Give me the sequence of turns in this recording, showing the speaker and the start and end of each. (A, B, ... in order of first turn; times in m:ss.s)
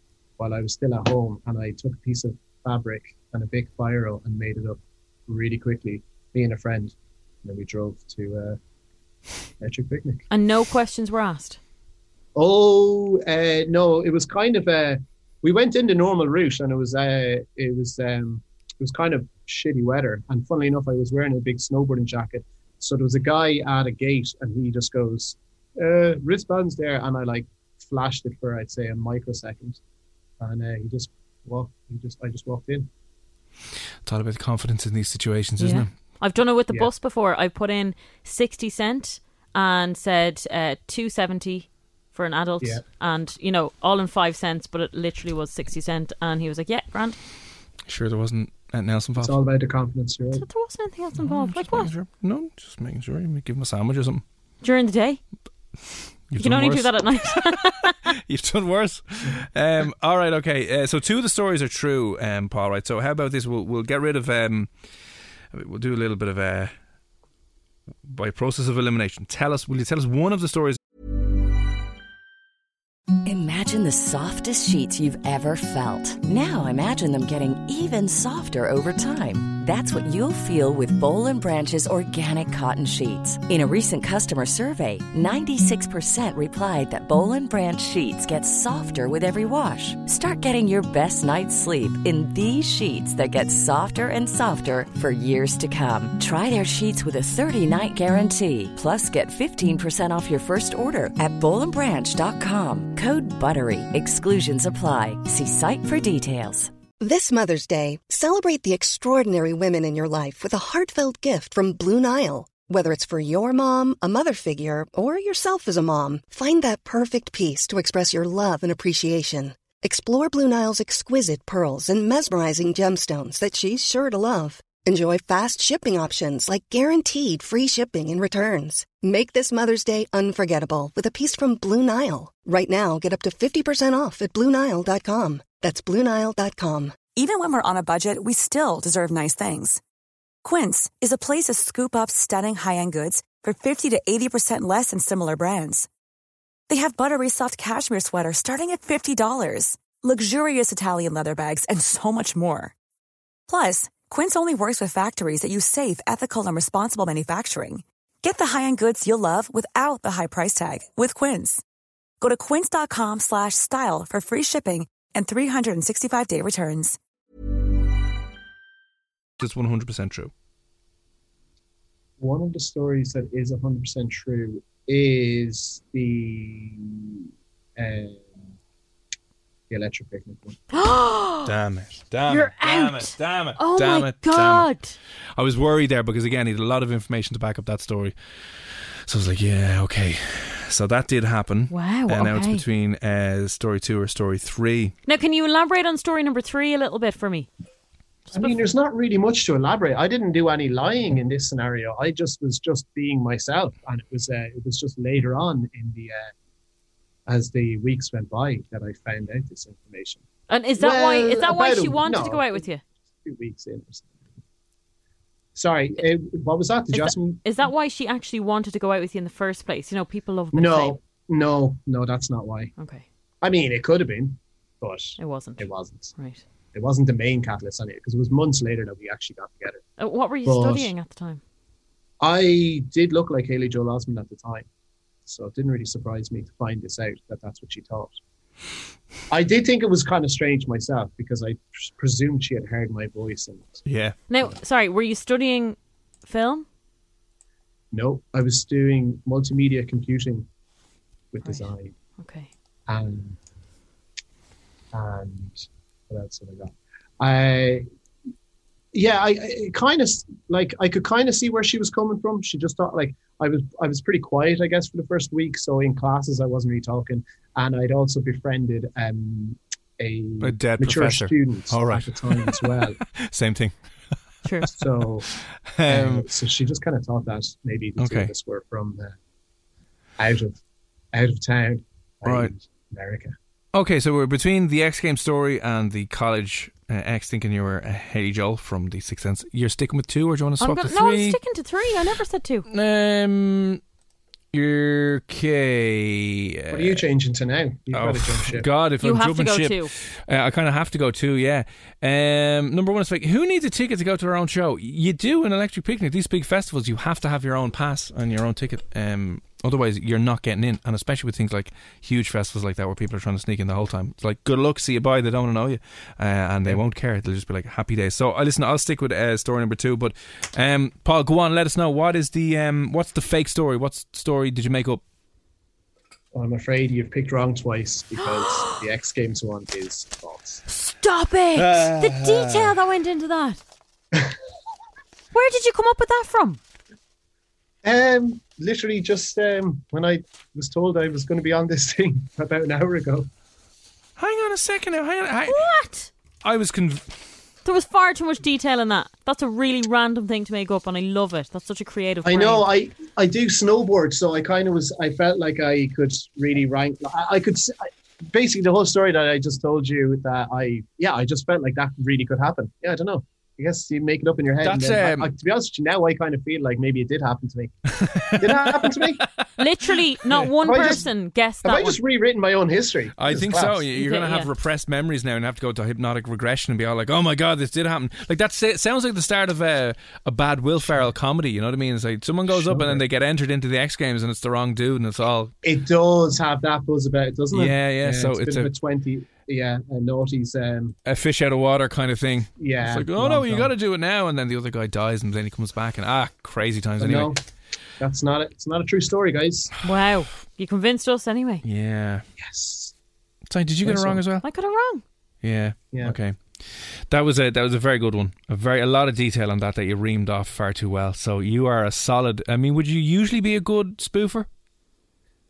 0:00.4-0:08.6 A
0:09.6-0:10.3 A
0:10.3-0:11.6 B
0:12.4-0:29.8 A
0:30.4-0:32.9 A
0:34.0-0:35.9 C
0:35.6-0:47.2 B
0:47.8-0:49.4 C
0:49.2-0:50.4 A
0:50.3-0:51.9 B
0:51.2-0:54.2 C
0:54.6-0:55.2 B
0:56.3-1:04.7 C
0:56.4-0:58.1 B
1:05.5-1:06.7 C
1:08.0-1:10.8 C
1:13.2-1:46.7 D
1:47.0-2:17.0 E
2:17.1-2:19.8 F
2:20.4-2:25.9 F
2:26.7-2:32.7 F
2:33.5-2:41.6 F
2:42.2-2:47.0 F
2:49.4-2:50.3 C
2:52.2-2:57.2 A
2:57.8-2:58.4 A
2:59.7-3:00.6 A
3:00.7-3:01.5 B
3:01.4-3:04.7 C
3:02.3-3:05.0 B
3:05.3-3:08.2 C
3:09.0-3:14.9 C
3:11.7-3:12.6 B
3:15.0-3:17.5 B
3:18.3-3:18.6 B
3:18.3-3:26.3 A
3:27.3-3:30.2 A
3:30.5-3:32.8 B
3:30.8-3:32.7 A
3:33.2-3:34.2 A
3:35.5-3:37.4 A
3:36.9-3:41.0 B
3:40.5-3:42.7 A
3:42.8-3:43.0 B
3:43.4-3:46.1 A
3:45.2-3:46.4 B
3:46.7-3:49.8 A
3:50.0-3:51.4 B
3:50.4-3:50.9 A
3:52.2-3:54.7 A
3:55.2-3:58.2 A
3:59.3-4:03.8 A
4:03.8-4:04.2 C
4:04.3-4:06.6 B
4:07.9-4:10.5 A
4:11.3-4:11.9 A
4:11.4-4:12.5 B
4:12.9-4:13.4 A
4:14.9-4:17.8 A
4:18.9-4:33.0 A
4:30.4-4:33.7 C
4:34.4-4:34.7 B
4:34.7-4:35.3 A
4:35.7-4:36.2 C
4:35.9-4:39.2 A
4:38.0-4:38.3 C
4:40.2-4:40.6 A
4:41.1-4:43.3 A
4:42.2-4:42.5 C
4:43.7-4:51.4 C
4:50.6-4:52.7 B
4:52.7-4:53.8 C
4:54.5-4:57.0 C
4:56.7-4:58.7 A
4:57.9-5:25.0 C
4:59.0-4:59.9 B
5:26.3-5:30.6 A
5:30.7-5:33.6 B
5:31.6-5:32.7 C
5:35.3-5:36.6 B
5:37.8-5:43.3 A
5:44.2-5:45.6 C
5:45.5-5:46.1 B
5:46.4-5:47.2 C
5:47.6-5:52.6 B
5:52.2-6:09.3 A
6:04.6-6:05.3 C
6:08.0-6:09.1 C
6:09.6-6:12.0 B
6:10.3-6:11.0 A
6:11.6-6:13.8 A
6:13.2-6:25.5 C
6:13.9-6:14.5 B
6:22.5-6:23.0 A
6:25.6-6:31.0 A
6:27.5-6:28.7 C
6:31.0-6:37.3 C
6:32.6-6:33.7 A
6:37.0-6:37.4 A
6:38.0-6:39.7 A
6:39.8-6:41.6 B
6:41.6-6:42.2 C
6:42.4-6:42.9 A
6:43.5-6:44.4 C
6:43.8-6:44.2 A
6:44.4-6:45.0 B
6:45.4-6:54.5 C